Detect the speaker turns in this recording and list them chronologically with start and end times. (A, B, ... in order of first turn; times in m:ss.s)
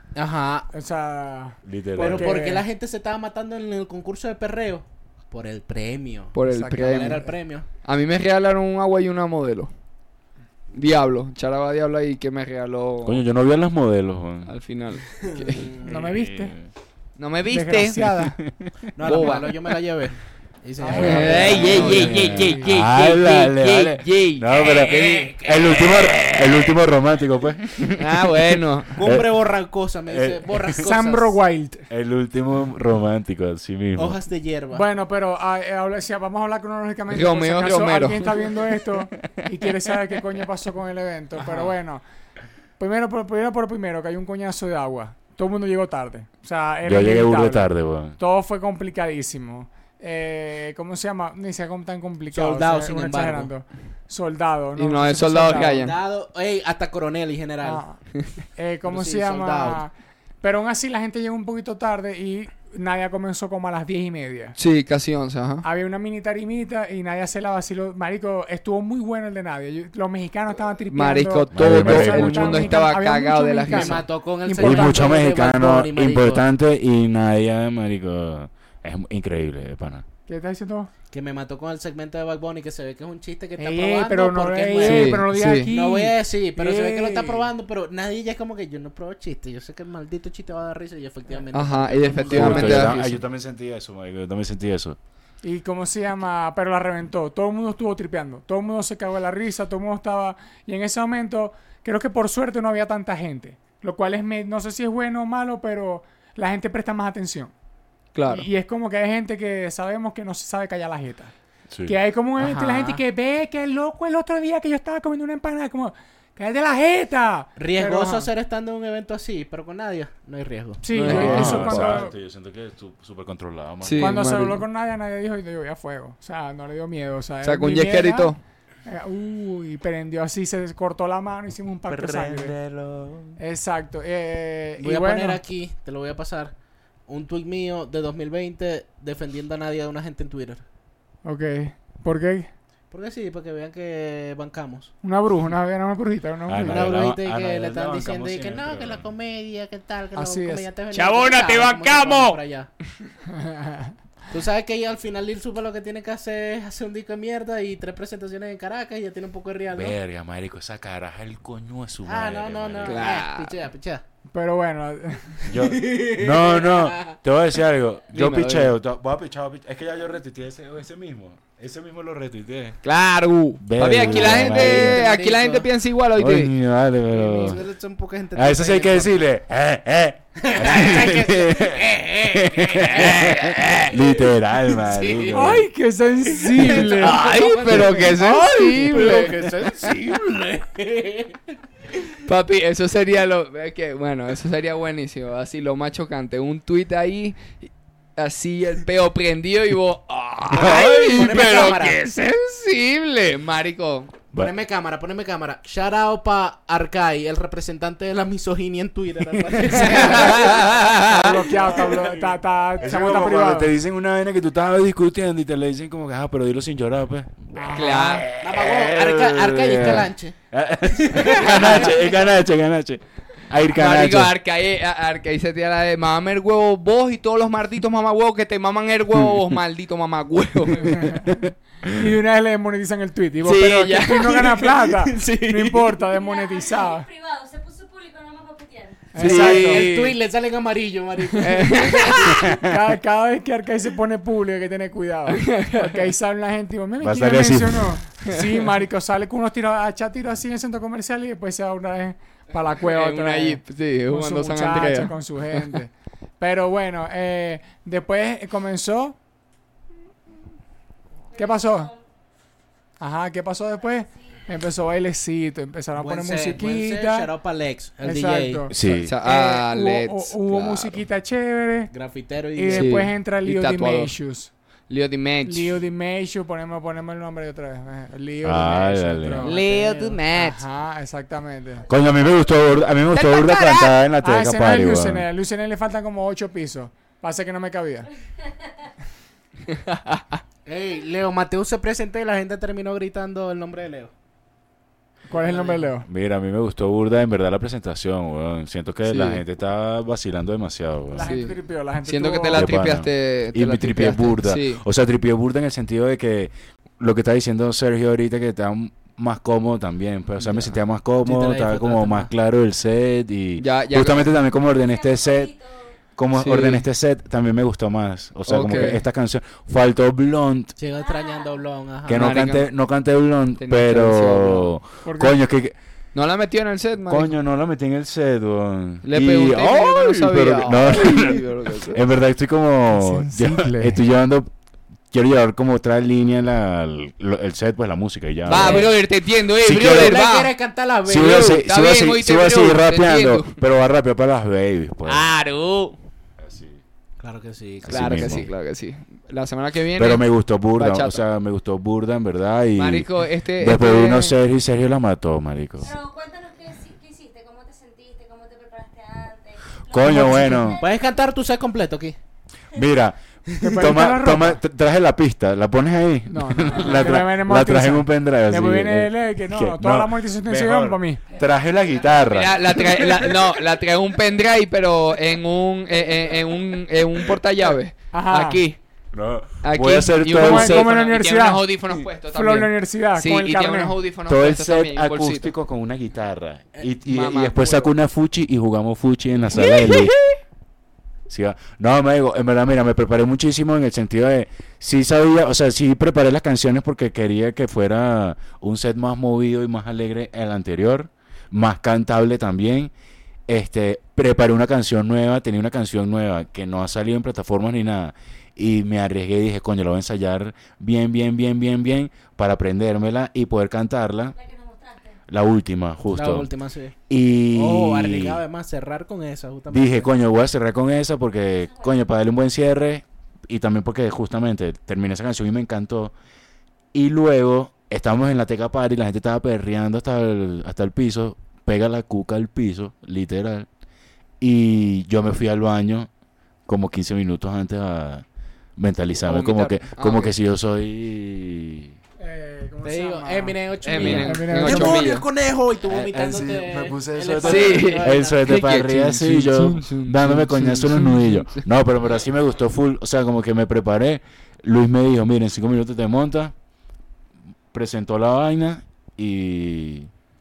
0:00.2-0:00.7 A
0:00.7-0:02.6 B
0:01.6-0:02.4 C
0:02.0-0:07.7 A
0:06.3-0:07.2 D
0:06.5-0:07.3 B
0:07.8-0:09.7 D
0:10.7-0:13.2 D
0:13.0-0:14.5 C
0:14.5-0:15.7 D
0:15.2-0:16.1 A
0:15.8-0:16.6 B
0:15.9-0:16.7 C
0:17.2-0:18.1 D
0:17.5-0:18.4 B
0:18.4-0:18.7 C
0:19.0-0:22.5 A
0:19.0-0:19.6 D
0:20.8-0:22.7 B
0:20.9-0:28.4 C
0:20.9-0:24.5 D
0:24.6-0:25.9 A
0:25.9-0:26.6 D
0:28.0-0:29.0 D
0:29.0-0:31.4 A
0:29.0-0:29.3 C
0:30.1-0:30.8 C
0:30.8-0:31.9 B
0:31.9-0:34.2 C
0:34.0-0:34.9 A
0:34.7-0:42.0 B
0:37.1-0:38.3 D
0:42.8-0:47.7 B
0:46.8-0:48.2 C
0:48.2-0:55.8 B
0:52.3-0:53.5 A
0:54.8-0:56.0 D
0:55.5-0:57.8 A
0:57.6-0:58.0 B
0:58.6-0:59.9 B
0:58.8-0:59.8 A
1:00.4-1:04.6 B
1:04.6-1:05.7 D
1:05.6-1:15.1 B
1:10.9-1:14.0 D
1:11.5-1:12.9 C
1:13.7-1:16.4 A
1:14.6-1:20.0 C
1:20.3-1:20.9 B
1:21.1-1:33.0 A
1:23.6-1:27.5 B
1:24.8-1:25.7 D
1:31.5-1:33.2 D
1:32.3-1:35.0 C
1:35.4-1:47.5 B
1:48.2-1:48.5 D
1:48.3-1:51.3 B
1:51.7-1:52.0 C
1:51.9-1:58.3 B
1:52.4-1:53.0 A
1:57.6-2:00.8 A
2:00.8-2:02.1 B
2:00.9-2:02.0 D
2:01.0-2:04.3 C
2:03.8-2:04.6 D
2:04.0-2:08.3 B
2:07.4-2:08.4 D
2:08.9-2:12.5 B
2:11.9-2:13.4 C
2:13.4-2:15.4 B
2:14.8-2:16.5 A
2:17.1-2:20.6 A
2:21.2-2:22.5 B
2:22.9-2:24.9 A
2:25.0-2:26.9 B
2:26.5-2:29.1 C
2:26.6-2:32.7 A
2:30.2-2:30.6 B
2:30.9-2:32.4 D
2:33.3-2:33.9 B
2:34.3-2:40.0 A
2:39.7-2:43.0 C
2:42.0-2:44.0 A
2:42.8-2:43.6 D
2:44.3-2:45.5 B
2:45.4-2:52.8 C
2:45.6-2:47.2 A
2:48.1-2:48.7 D
2:52.8-2:56.5 D
2:53.6-2:55.0 C
2:54.0-2:55.7 A
2:56.2-2:57.6 C
2:57.1-2:59.2 A
2:58.4-3:05.7 C
3:00.4-3:03.9 A
3:03.0-3:03.9 D
3:04.7-3:05.6 A
3:05.3-3:07.2 B
3:06.3-3:11.4 A
3:06.6-3:09.3 D
3:07.6-3:10.0 C
3:12.2-3:24.1 D
3:20.5-3:21.2 C
3:20.5-3:22.0 A
3:24.4-3:32.2 A
3:29.4-3:30.3 C
3:29.9-3:31.4 D
3:31.0-3:33.7 B
3:32.8-3:44.3 C
3:37.6-3:38.3 B
3:37.7-3:38.3 D
3:38.4-3:40.4 A
3:40.9-3:42.1 A
3:41.4-3:41.9 D
3:43.8-3:51.2 D
3:51.9-3:57.1 B
3:53.4-3:55.6 D
3:55.1-3:55.9 A
3:56.2-3:59.0 E
3:59.1-3:59.9 B
3:59.2-4:00.2 D
3:59.2-4:02.5 A
4:01.4-4:02.4 D
4:02.3-4:02.8 C
4:02.3-4:19.2 B
4:05.3-4:06.0 D
4:07.0-4:08.0 C
4:12.8-4:15.7 D
4:21.3-4:21.9 B
4:23.0-4:27.3 B
4:26.0-4:28.7 A
4:28.0-4:31.9 B
4:28.7-4:29.1 C
4:29.0-4:31.0 D
4:31.9-4:33.0 A
4:32.6-4:34.5 B
4:32.7-4:34.1 D
4:34.9-4:35.7 D
4:35.4-4:39.6 B
4:38.4-4:39.5 C
4:39.4-4:40.6 D
4:39.4-4:40.2 A
4:40.3-4:41.8 B
4:41.9-4:45.3 C
4:43.1-4:44.0 D
4:44.2-4:48.1 B
4:49.7-4:50.4 D
4:50.7-4:54.1 A
4:55.3-4:56.1 B
4:55.3-4:55.9 A
4:56.0-5:01.3 C
4:59.1-4:59.4 D
5:01.1-5:02.7 B
5:01.2-5:04.8 D
5:02.5-5:15.6 C
5:11.2-5:12.3 A
5:13.6-5:14.3 D
5:16.2-5:20.7 C
5:16.4-5:16.8 D
5:18.5-5:19.0 D
5:20.8-5:22.4 A
5:22.0-5:25.8 C
5:22.1-5:22.7 D
5:23.6-5:24.7 D
5:25.0-5:25.4 B
5:26.1-5:27.3 D
5:27.1-5:34.5 C
5:29.0-5:32.0 D
5:32.9-5:34.0 B
5:35.1-5:39.0 C
5:38.5-5:40.5 D
5:38.6-5:38.9 A
5:39.6-5:40.2 C
5:39.9-5:41.6 A
5:41.1-5:45.3 C
5:41.2-5:43.6 D
5:45.0-5:46.0 D
5:46.4-5:46.8 C
5:47.2-5:48.3 A
5:47.8-5:48.5 C
5:47.9-5:51.2 D
5:50.0-5:55.9 C
5:52.8-5:54.4 D
5:55.8-6:00.8 E
5:59.9-6:00.8 C
6:00.0-6:00.8 B
6:00.8-6:02.2 A
6:02.7-6:13.4 C
6:03.5-6:03.9 A
6:03.6-6:04.6 B
6:06.3-6:11.2 B
6:12.3-6:18.8 D
6:18.1-6:18.6 B
6:19.1-6:21.0 C
6:19.6-6:25.5 D
6:20.4-6:21.6 B
6:22.3-6:24.0 B
6:24.3-6:30.2 C
6:27.1-6:27.9 D
6:29.5-6:30.4 D
6:31.3-6:42.9 C
6:43.5-6:54.4 C
6:54.4-6:55.2 E
6:55.3-6:56.5 C
6:56.1-6:57.0 A
6:57.1-6:58.4 C
6:57.5-7:00.1 A
6:59.7-7:06.1 C
7:06.9-7:13.7 C
7:14.4-7:16.1 C
7:16.7-7:18.2 C
7:18.8-7:22.0 C
7:19.3-7:20.3 D
7:22.2-7:25.1 B
7:22.8-7:28.5 A
7:23.8-7:25.2 D
7:24.0-7:24.4 C
7:25.8-7:36.5 C
7:27.4-7:31.6 D
7:37.7-7:40.1 C